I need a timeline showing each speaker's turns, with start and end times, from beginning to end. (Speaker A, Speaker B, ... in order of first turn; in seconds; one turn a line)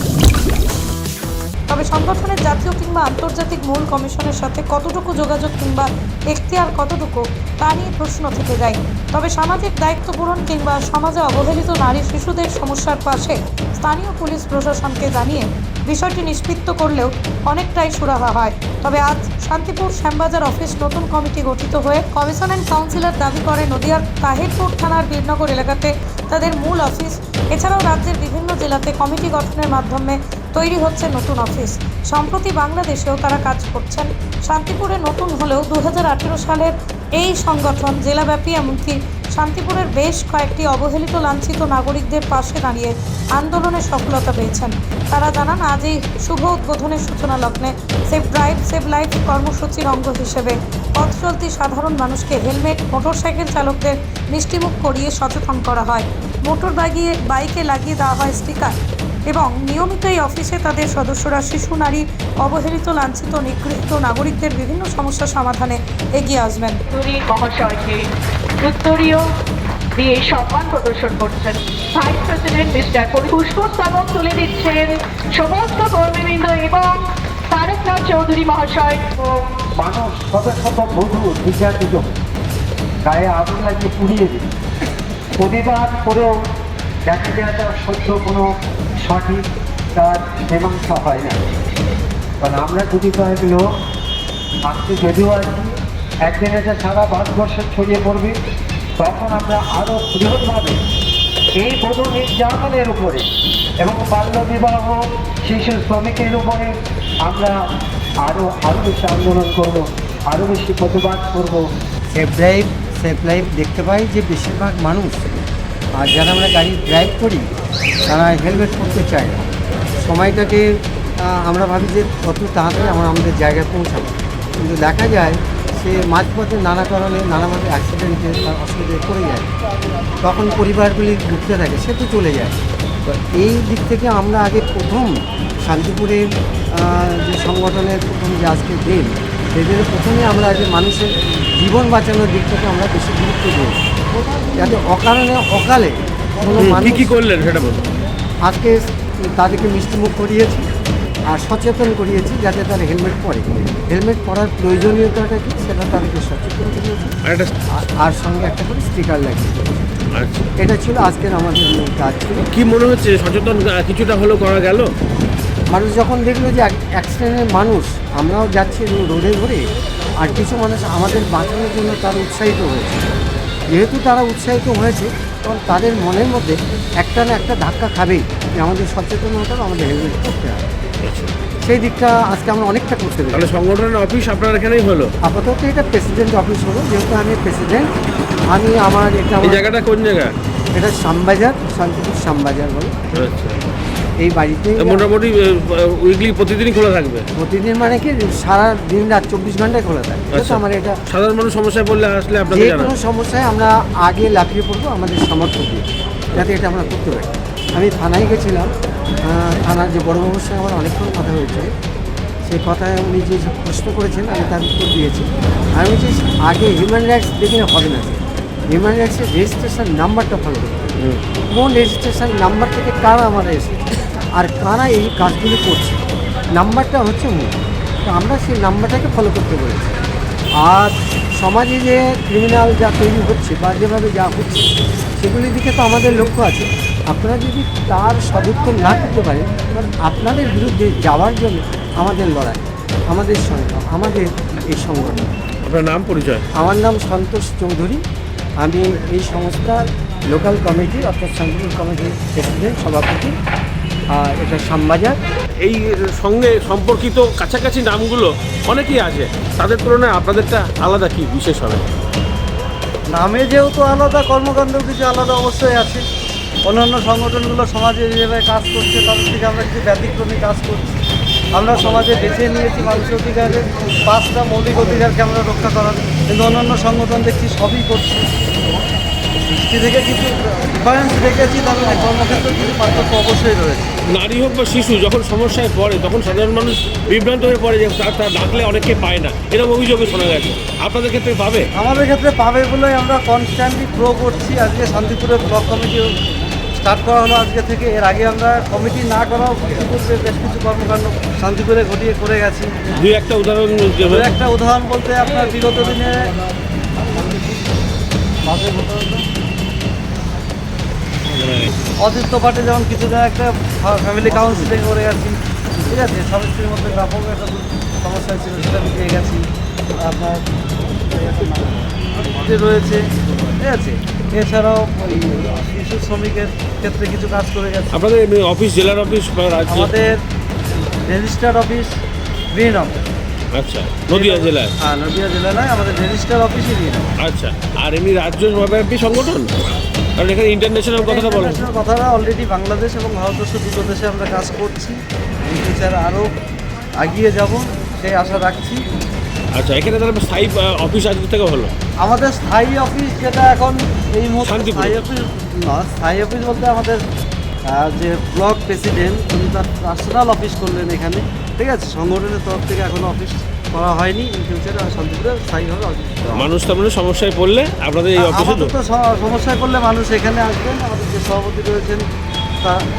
Speaker A: 1.7-58.7
Speaker A: 59.3-66.8
Speaker B: 66.9-68.1
Speaker B: 68.6-69.3
Speaker B: 70.0-79.0
Speaker C: 79.8-82.2
Speaker C: 83.0-84.5
Speaker C: 85.4-86.5
Speaker C: 87.1-91.4
Speaker C: 92.4-93.7
Speaker C: 94.6-95.7
Speaker C: 96.3-98.4
Speaker C: 99.0-100.8
Speaker C: 101.6-103.3
Speaker C: 103.8-106.7
Speaker C: 107.3-107.6
Speaker C: 108.2-111.7
Speaker D: 112.1-115.3
Speaker D: 116.0-117.4
Speaker D: 118.1-119.5
Speaker D: 120.0-120.6
Speaker D: 121.3-129.5
Speaker D: 130.2-135.1
Speaker D: 135.7-136.2
Speaker D: 136.8-143.8
Speaker D: 144.6-147.1
Speaker E: 146.5-147.8
Speaker D: 148.4-150.7
Speaker D: 151.3-157.2
Speaker D: 157.8-159.9
Speaker E: 160.2-160.5
Speaker D: 160.6-162.4
Speaker E: 162.5-164.9
Speaker D: 165.7-169.6
Speaker D: 170.2-173.0
Speaker D: 173.7-180.7
Speaker E: 181.0-181.3
Speaker D: 181.7-183.4
Speaker E: 183.3-185.1
Speaker D: 185.2-187.9
Speaker D: 188.5-189.7
Speaker E: 189.4-190.3
Speaker D: 190.7-193.0
Speaker E: 193.1-193.6
Speaker D: 194.2-195.1
Speaker E: 194.8-197.2
Speaker D: 197.4-201.0
Speaker E: 200.3-202.9
Speaker D: 202.5-208.7
Speaker D: 209.3-211.7
Speaker D: 212.5-218.2
Speaker D: 218.7-220.9
Speaker D: 221.5-223.8
Speaker D: 224.4-226.0
Speaker D: 226.6-227.5
Speaker D: 228.1-229.9
Speaker D: 230.6-234.7
Speaker D: 235.2-245.2
Speaker E: 245.6-246.4
Speaker D: 246.6-248.0
Speaker D: 248.6-253.3
Speaker D: 254.1-255.2
Speaker E: 255.6-261.9
Speaker F: 263.1-266.0
Speaker F: 266.7-271.0
Speaker F: 271.5-278.4
Speaker F: 279.4-284.0
Speaker E: 284.1-291.7
Speaker F: 291.8-296.1
Speaker F: 296.8-302.7
Speaker E: 303.0-304.4
Speaker F: 304.1-306.3
Speaker F: 308.4-309.2
Speaker E: 311.3-311.7
Speaker F: 312.0-319.4
Speaker F: 320.0-320.4
Speaker F: 321.1-328.0
Speaker E: 327.9-330.0
Speaker F: 329.7-330.2
Speaker F: 331.1-331.9
Speaker F: 332.5-333.0
Speaker E: 333.6-334.7
Speaker F: 334.1-337.1
Speaker E: 337.2-339.5
Speaker E: 340.2-341.7
Speaker F: 341.0-346.3
Speaker F: 347.0-348.8
Speaker E: 349.6-351.7
Speaker F: 352.0-357.0
Speaker E: 354.4-355.0
Speaker F: 357.7-366.5
Speaker E: 366.3-368.7
Speaker F: 368.2-372.0